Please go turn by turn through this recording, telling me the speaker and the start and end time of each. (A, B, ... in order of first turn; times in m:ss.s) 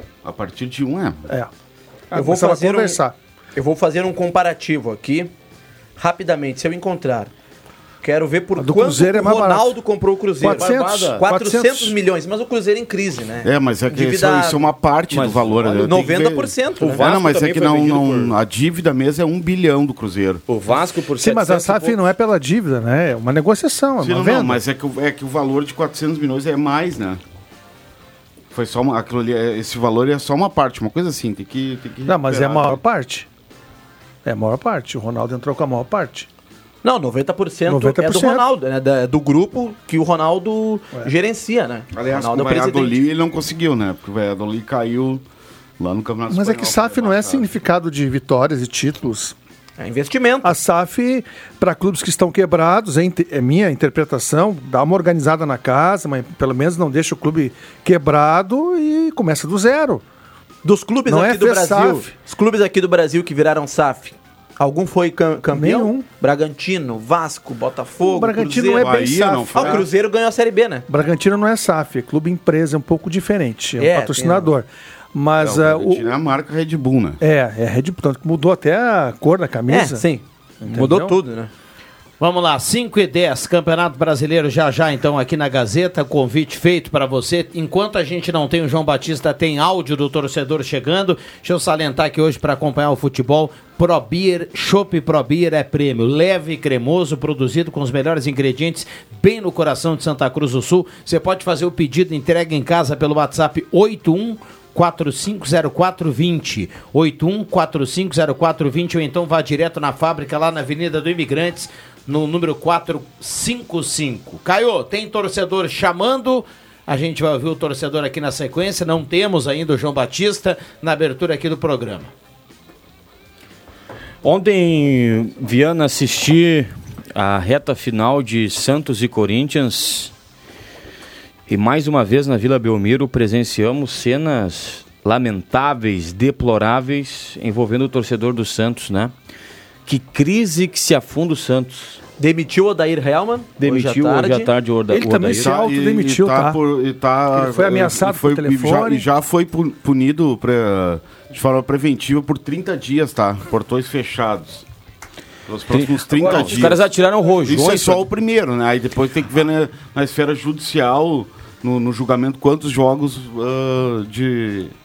0:00.2-0:01.3 A
0:02.1-0:03.0 B
0:02.1-0:03.1 C
0:03.5-0:05.3 B
0:06.0-0:07.3 B
0:08.0-0:14.7 B
0:08.6-0:09.7 C
0:10.4-0:11.9 C
0:10.4-0:11.2 D
0:13.4-0:20.4 A
0:15.1-0:15.8 D
0:15.7-0:17.0 B
0:16.8-0:18.4 D
0:20.5-0:22.0 D
0:21.2-0:24.6 C
0:24.0-0:27.2 A
0:28.5-0:32.8 A
0:32.0-0:33.3 C
0:34.2-0:36.3 C
0:36.8-0:43.0 B
0:37.7-0:38.5 C
0:41.9-0:45.2 A
0:45.8-0:47.5 A
0:46.3-0:49.3 C
0:49.8-0:50.6 B
0:50.4-1:00.0 C
1:00.6-1:10.8 B
1:01.0-1:02.1 C
1:05.5-1:06.0 C
1:08.0-1:09.8 C
1:08.7-1:09.9 A
1:10.9-1:16.1 C
1:13.8-1:14.5 B
1:15.4-1:17.2 A
1:17.2-1:20.0 C
1:19.7-1:21.5 B
1:20.6-1:21.2 C
1:22.2-2:02.1 E
2:04.2-2:10.1 D
2:11.5-2:19.1 D
2:19.8-2:22.0 D
2:22.2-2:24.5 B
2:23.6-2:25.5 D
2:24.9-2:26.6 C
2:25.3-2:34.6 A
2:27.3-2:29.0 C
2:35.5-2:36.9 A
2:35.7-2:38.0 D
2:37.4-2:44.7 A